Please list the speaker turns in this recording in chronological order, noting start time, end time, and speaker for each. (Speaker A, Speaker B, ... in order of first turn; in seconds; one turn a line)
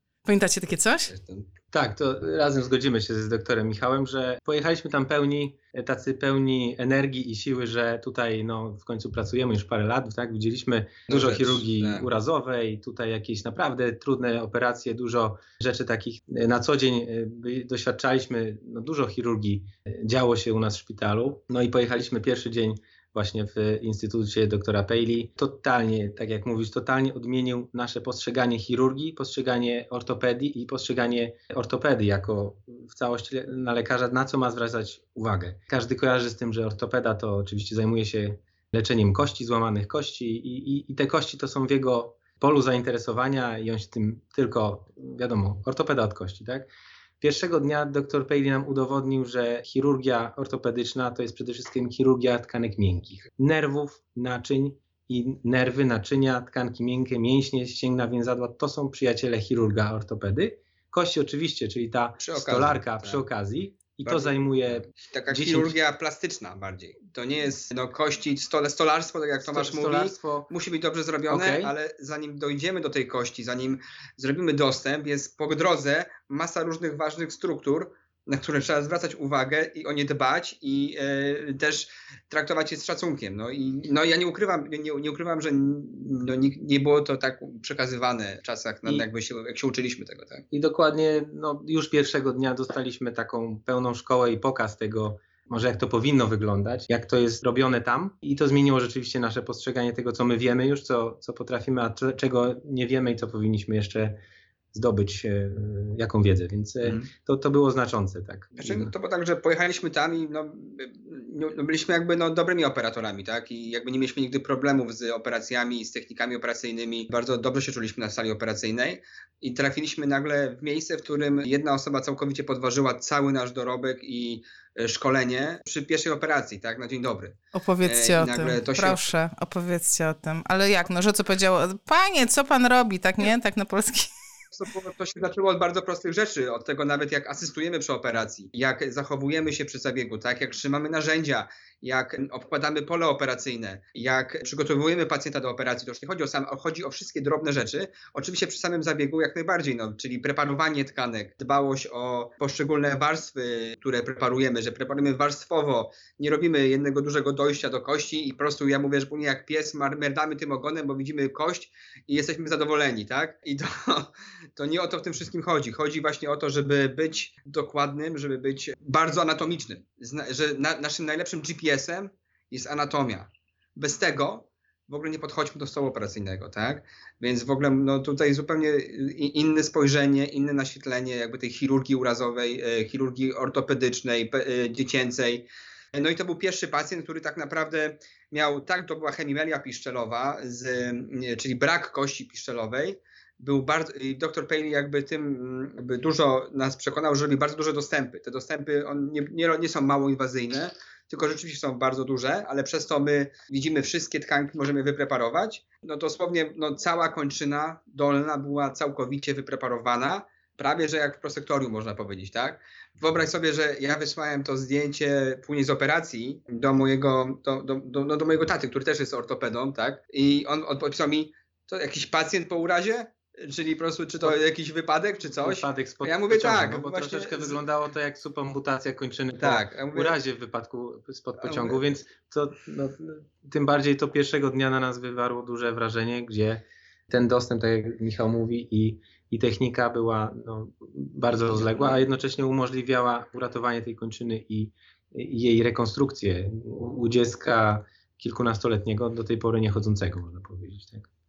Speaker A: 0.2-1.1
Speaker B: 1.1-1.5
Speaker C: 1.7-46.7
Speaker B: 11.1-12.1
Speaker C: 47.2-65.8
Speaker B: 62.2-63.2
Speaker B: 64.0-90.4
Speaker C: 69.4-70.5
Speaker C: 71.3-71.7
Speaker C: 90.5-104.2
Speaker C: 104.7-108.9
Speaker B: 106.8-107.1
Speaker B: 108.6-129.1
Speaker A: 127.5-134.1
Speaker B: 134.5-227.6
Speaker C: 225.4-251.1
Speaker B: 229.4-230.1
Speaker B: 231.4-231.8
Speaker B: 241.6-241.9